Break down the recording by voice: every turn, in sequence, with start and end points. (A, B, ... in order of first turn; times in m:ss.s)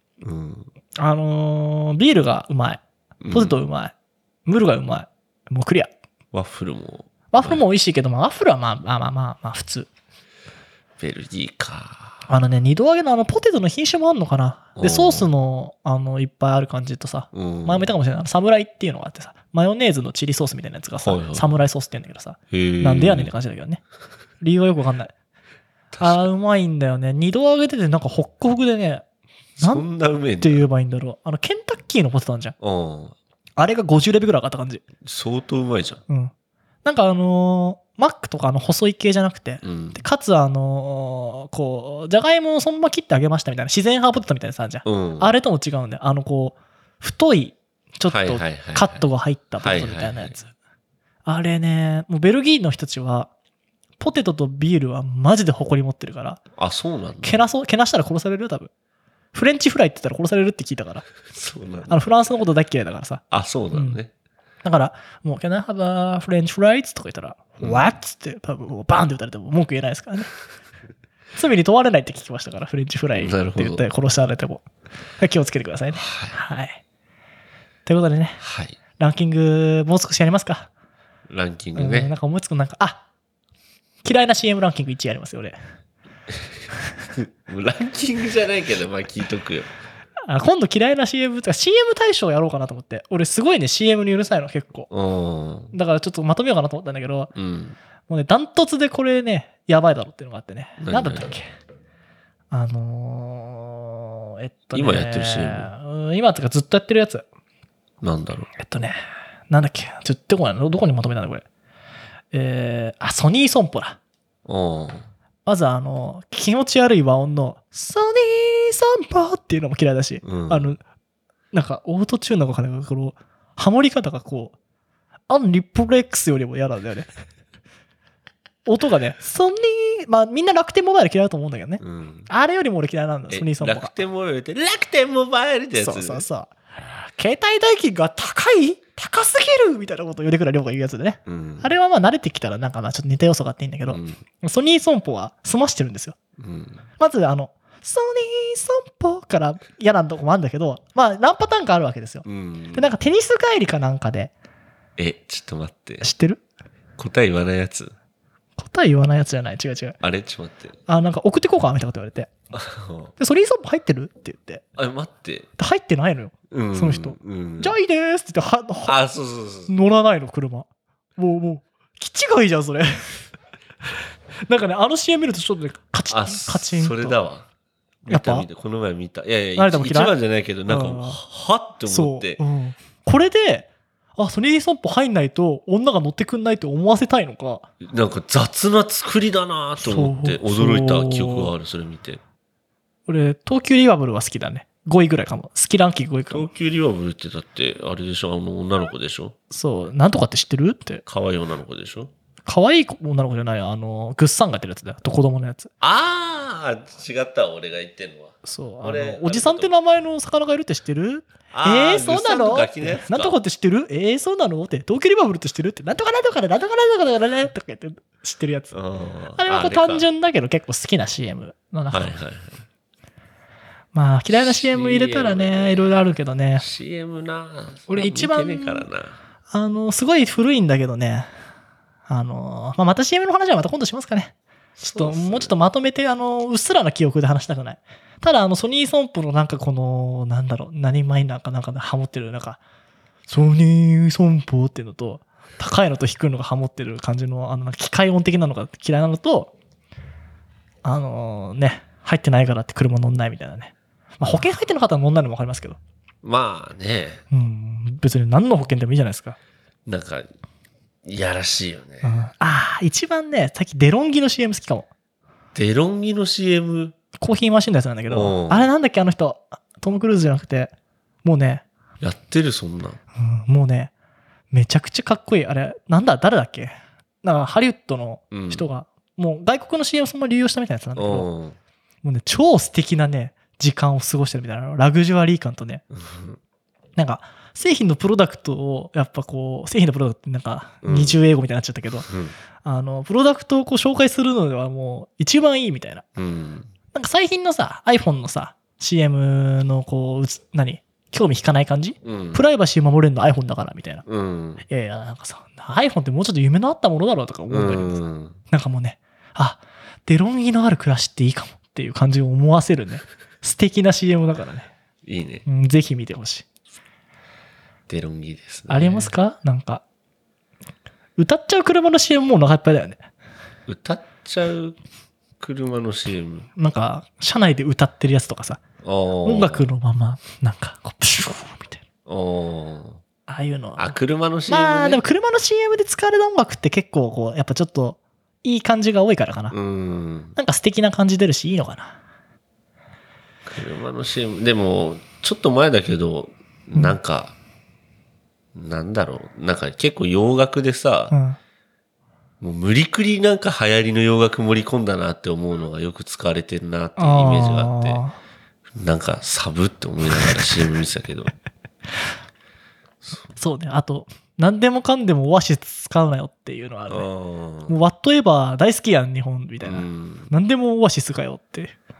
0:00.2-0:00.7 A
0:01.0-0:03.9 B
0:03.2-0:03.6 A
0:04.4-0:05.9 B
0:06.3-0:07.6 A
0:07.3-0:09.9 B
0:11.0-0:12.2 A
0:12.3-0:23.8 B
0:14.8-0:15.3 A
0:17.3-0:17.9 A
0:21.0-0:21.5 A
0:22.5-0:23.3 A
0:24.4-0:25.1 B
0:25.9-0:26.3 A
0:26.0-0:29.0 B
0:29.6-0:30.6 A
0:30.4-0:32.5 B
0:32.6-0:33.1 A
0:33.6-0:34.8 B
0:35.0-0:36.0 A
0:36.8-0:50.5 B
0:39.6-0:40.0 A
0:44.8-0:45.3 A
0:48.1-0:49.0 A
0:49.6-0:50.4 A
0:51.2-0:53.3 B
0:54.0-0:56.4 B
0:56.6-0:57.4 A
0:57.2-0:58.7 B
0:59.3-1:01.0 B
1:01.3-1:02.0 A
1:01.9-1:03.2 B
1:03.3-1:04.1 A
1:03.7-1:04.0 B
1:04.6-1:10.3 B
1:07.6-1:07.8 A
1:11.3-1:14.6 B
1:13.1-1:13.8 A
1:15.2-1:16.8 B
1:16.0-1:16.3 A
1:17.8-1:18.4 B
1:18.4-1:18.8 A
1:19.0-1:20.7 B
1:21.3-1:22.1 A
1:21.8-1:23.0 B
1:24.0-1:25.6 B
1:27.1-1:29.7 A
1:30.3-1:34.9 B
1:34.9-1:35.7 A
1:35.7-1:37.3 B
1:37.3-1:37.8 A
1:38.1-1:41.5 B
1:40.8-1:41.3 A
1:42.5-1:47.2 B
1:44.7-1:45.7 A
1:48.0-1:48.5 A
1:48.6-1:49.0 B
1:49.5-1:51.4 B
1:52.3-1:54.0 B
1:54.4-1:55.0 A
1:55.4-2:00.8 B
2:00.2-2:00.7 A
2:01.5-2:04.5 B
2:05.3-2:07.1 B
2:08.6-2:13.9 B
2:11.8-2:12.3 A
2:13.3-2:16.2 A
2:15.8-2:26.2 B
2:21.2-2:21.7 A
2:23.9-2:24.2 A
2:26.4-2:26.8 A
2:27.0-2:34.3 B
2:32.2-2:32.9 A
2:35.0-2:36.0 A
2:36.0-2:36.4 B
2:37.0-2:37.9 A
2:38.6-2:40.0 B
2:40.0-2:40.7 A
2:40.9-2:42.3 B
2:42.5-2:43.1 A
2:43.2-2:44.6 B
2:44.8-2:45.5 A
2:45.6-2:49.0 B
2:46.5-2:47.8 A
2:48.8-2:49.7 A
2:49.7-2:53.2 B
2:54.5-2:57.2 B
2:56.1-2:57.5 A
2:58.0-3:02.4 A
2:58.1-2:58.5 B
2:59.6-3:00.1 B
3:00.7-3:01.2 B
3:01.9-3:07.7 B
3:07.8-3:12.2 A
3:09.8-3:11.5 B
3:13.1-3:16.5 B
3:16.3-3:19.3 A
3:19.5-3:21.0 B
3:21.0-3:22.1 A
3:22.4-3:25.7 B
3:25.8-3:29.7 A
3:28.4-3:38.7 B
3:31.5-3:33.4 A
3:38.7-3:40.0 A
3:39.4-3:42.1 B
3:41.9-3:42.6 A
3:43.9-3:46.6 B
3:44.3-3:46.0 A
3:46.6-3:49.2 A
3:47.9-3:48.9 B
3:49.5-3:51.3 B
3:52.1-4:02.6 B
3:54.8-3:55.5 A
4:03.3-4:09.5 B
4:10.8-4:15.8 B
4:16.2-4:17.2 A
4:17.3-4:19.4 B
4:19.8-4:20.3 A
4:21.0-4:22.2 A
4:22.0-4:24.9 B
4:25.5-4:26.9 A
4:27.2-4:30.7 B
4:28.1-4:28.7 A
4:31.2-4:31.6 B
4:32.0-4:33.0 A
4:33.2-4:33.9 B
4:34.5-4:41.3 B
4:38.3-4:38.6 A
4:41.0-4:41.6 A
4:42.0-4:45.8 B
4:45.9-4:46.4 A
4:47.0-4:52.1 B
4:50.8-4:51.2 A
4:52.0-4:52.3 A
4:52.6-4:56.0 B
4:56.2-4:56.7 A
4:56.9-5:04.0 B
5:02.0-5:02.4 A
5:04.0-5:04.6 A
5:04.7-5:14.7 B
5:07.5-5:08.4 A
5:15.0-5:15.4 A
5:15.4-5:16.4 B
5:17.9-5:19.1 A
5:18.7-5:19.8 B
5:21.2-5:23.0 B
5:23.7-5:24.8 A
5:25.4-5:26.5 A
5:26.6-5:28.6 B
5:28.8-5:29.7 A
5:29.2-5:31.8 B
5:32.0-5:33.0 A
5:33.3-5:33.9 B
5:33.8-5:35.0 A
5:34.5-5:39.5 B
5:39.5-5:40.3 A
5:40.3-5:42.0 B
5:43.4-5:47.3 A
5:48.5-5:51.1 A
5:51.1-5:51.4 B
5:52.4-5:58.0 A
5:57.0-5:58.2 B
5:58.7-6:01.3 A
6:03.0-6:03.3 A
6:03.4-6:07.1 B
6:06.9-6:07.8 A
6:07.7-6:11.7 B
6:09.6-6:10.3 A